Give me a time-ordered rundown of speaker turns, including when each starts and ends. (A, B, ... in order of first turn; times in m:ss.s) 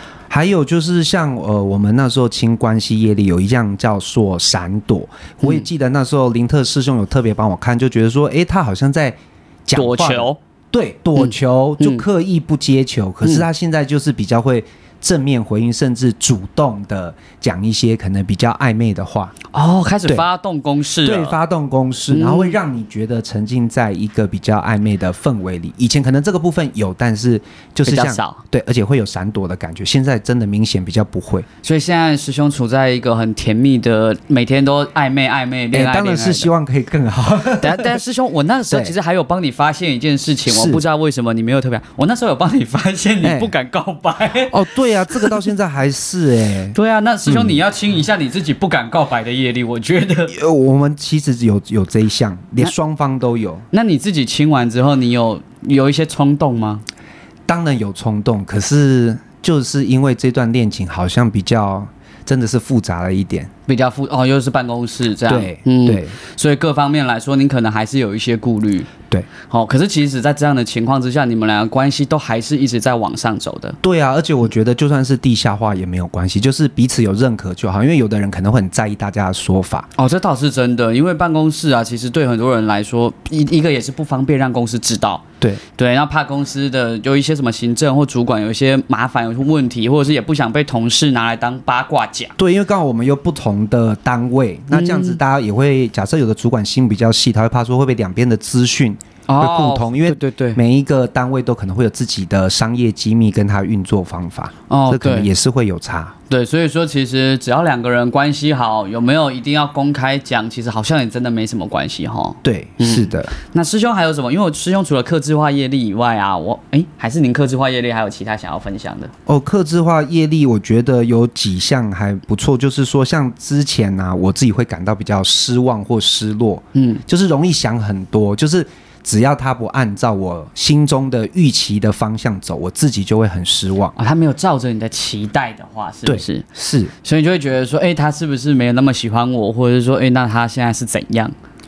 0:00.3-0:19.4 A
0:09.7-0:10.4 B
0:11.2-0:12.0 B
0:19.5-0:21.4 B
0:21.0-0:31.5 A
0:22.1-0:22.6 B
0:27.8-0:28.4 B
0:31.6-0:36.5 B
0:35.7-0:37.9 A
0:37.6-0:44.5 B
0:40.5-0:40.8 A
0:43.2-0:43.5 A
0:44.5-0:47.6 A
0:45.1-0:45.4 B
0:46.7-0:50.3 B
0:50.3-0:53.6 A
0:53.7-0:56.8 B
0:57.5-1:03.5 A
1:03.7-1:08.9 B
1:05.3-1:06.2 A
1:09.4-1:13.8 B
1:13.8-1:19.9 A
1:20.0-1:32.4 B
1:32.4-1:46.1 A
1:34.7-1:35.2 B
1:39.3-1:40.6 B
1:44.7-1:45.3 B
1:46.3-1:59.1 B
1:52.4-1:53.3 A
1:59.2-2:13.9 A
2:06.7-2:07.0 B
2:13.9-2:16.5 B
2:16.0-2:16.9 A
2:17.0-2:21.3 B